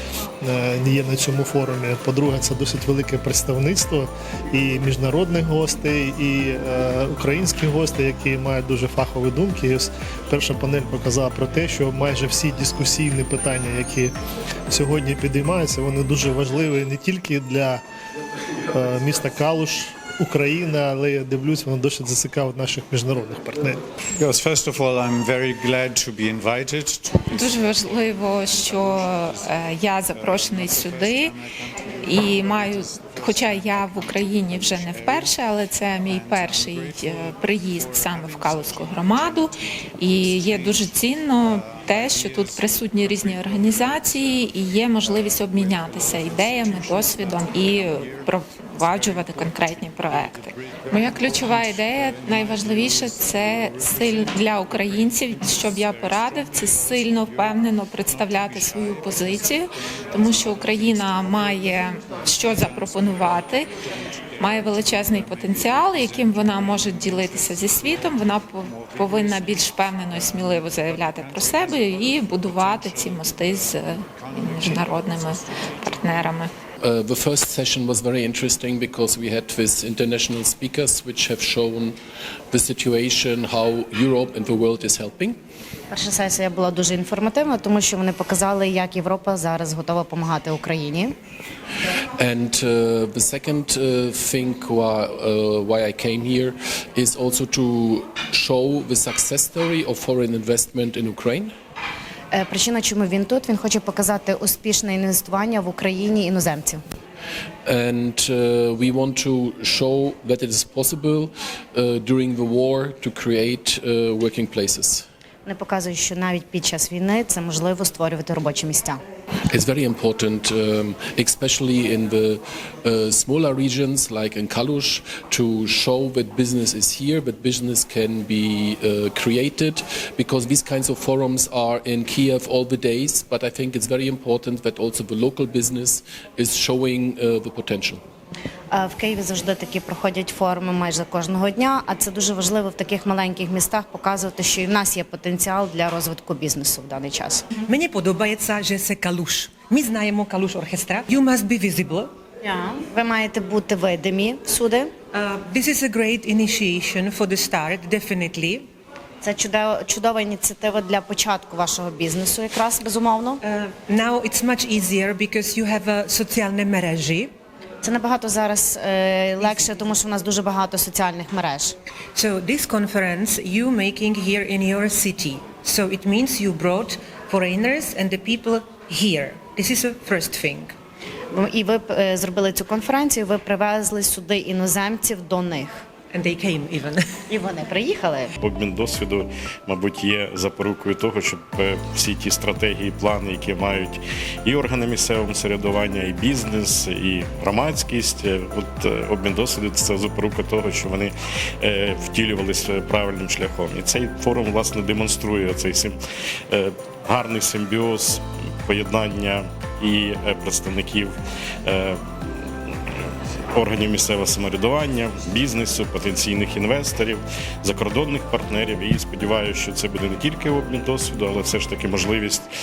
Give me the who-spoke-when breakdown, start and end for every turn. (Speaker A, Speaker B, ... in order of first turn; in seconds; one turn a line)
Speaker A: 0.4-14.1
Speaker A: 14.7-17.8
Speaker A: 18.7-23.8
Speaker B: 24.2-27.0
Speaker C: 27.2-31.4
Speaker C: 32.0-63.7
Speaker C: 64.4-76.5
Speaker D: 76.8-82.0
Speaker D: 82.5-85.4
Speaker E: 85.9-91.1
Speaker D: 92.2-101.5
Speaker E: 102.3-106.8
Speaker D: 107.7-115.0
Speaker E: 115.5-119.0
Speaker D: 119.5-138.0
Speaker E: 138.7-147.5
Speaker F: 147.5-152.1
Speaker E: 152.4-154.9
Speaker F: 155.1-158.7
Speaker E: 159.2-163.4
Speaker F: 163.4-167.3
Speaker E: 167.8-171.8
Speaker F: 169.4-169.9
Speaker F: 172.2-180.7
Speaker E: 181.3-185.8
Speaker F: 186.1-187.0
Speaker E: 187.3-188.3
Speaker G: 188.4-205.9
Speaker G: 206.5-211.1
Speaker G: 211.7-212.0
Speaker G: 213.6-222.5